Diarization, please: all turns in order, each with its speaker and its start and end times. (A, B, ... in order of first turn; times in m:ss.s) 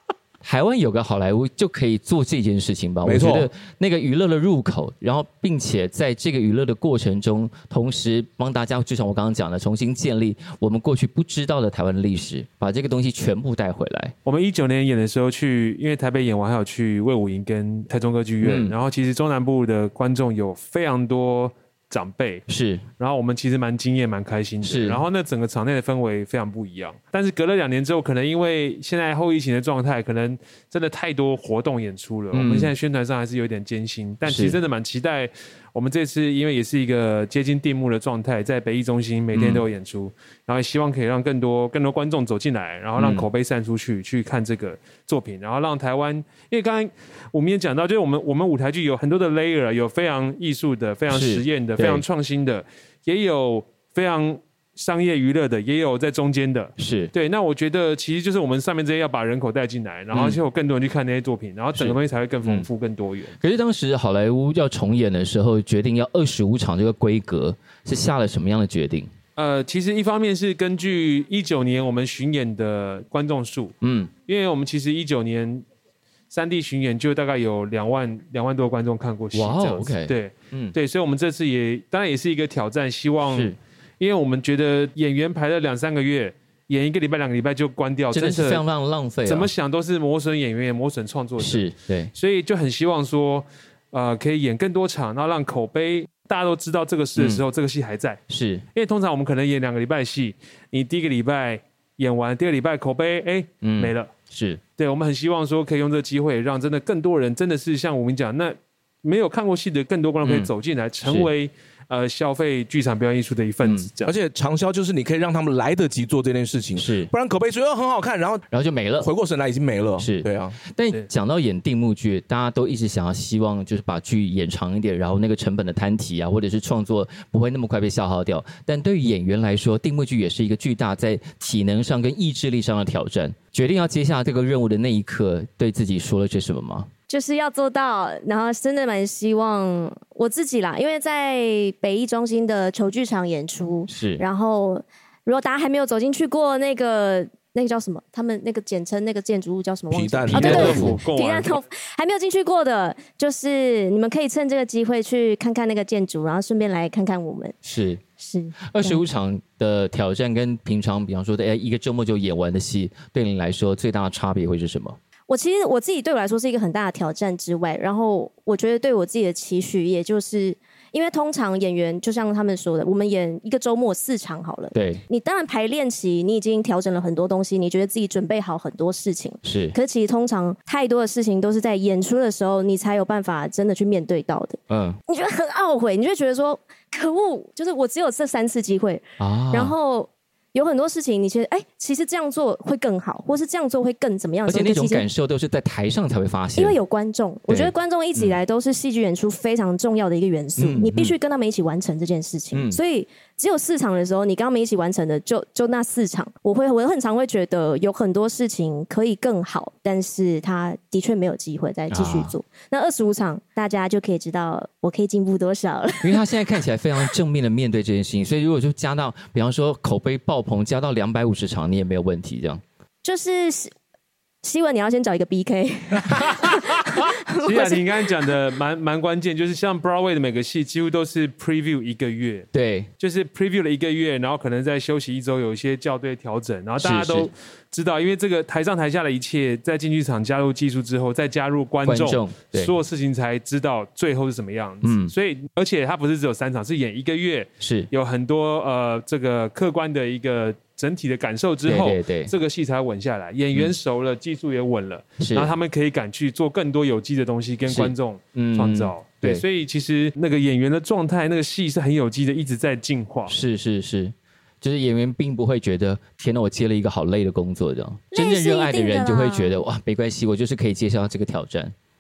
0:00.4-0:14.1 A
0:03.0-0:03.5 B
0:14.2-0:22.4 C
0:18.4-0:18.8 A
0:22.5-0:22.8 A
0:23.0-1:03.4 C
0:24.6-0:25.0 A
0:32.3-0:32.7 A
0:34.3-0:34.6 A
0:39.3-0:39.6 A
0:43.0-0:43.3 A
0:51.1-0:52.0 A
0:56.8-0:57.1 A
1:00.1-1:00.4 A
1:01.8-1:02.7 A
1:03.4-1:09.1 A
1:09.4-1:15.6 C
1:13.8-1:14.1 A
1:16.3-1:28.6 C
1:19.3-1:20.8 A
1:23.2-1:23.6 A
1:28.1-1:29.5 A
1:29.3-1:38.2 C
1:31.4-1:32.1 A
1:37.2-1:37.4 A
1:38.3-1:38.6 A
1:38.7-1:44.1 C
1:43.6-1:44.6 A
1:44.8-1:54.1 C
1:50.2-1:50.5 A
1:51.0-1:51.3 A
1:53.6-1:53.9 A
1:54.0-1:58.5 B
1:56.8-1:57.1 A
1:58.5-1:59.1 A
1:59.0-2:00.6 B
2:00.0-2:16.9 A
2:17.1-2:37.6 D
2:23.9-2:24.2 A
2:29.9-2:30.9 B
2:30.3-2:31.6 C
2:30.3-2:31.0 A
2:37.6-2:38.0 A
2:38.2-2:39.0 D
2:38.7-2:45.0 A
2:45.3-3:15.0 D
2:54.7-2:55.0 A
2:59.4-2:59.8 A
3:04.7-3:05.0 A
3:09.2-3:09.7 A
3:14.5-3:16.8 A
3:16.6-3:36.2 D
3:17.5-3:18.4 A
3:20.6-3:21.2 A
3:22.5-3:22.8 A
3:31.9-3:32.3 A
3:36.0-3:42.6 A
3:43.0-3:43.7 D
3:44.4-3:48.1 D
3:47.3-3:52.5 C
3:52.5-3:52.9 A
3:53.0-4:23.4 C
3:56.8-3:57.3 A
4:01.8-4:02.7 A
4:04.8-4:05.1 A
4:07.6-4:07.9 A
4:11.6-4:12.3 A
4:15.2-4:15.5 A
4:17.7-4:19.4 A
4:23.3-4:31.7 A
4:28.1-4:29.6 D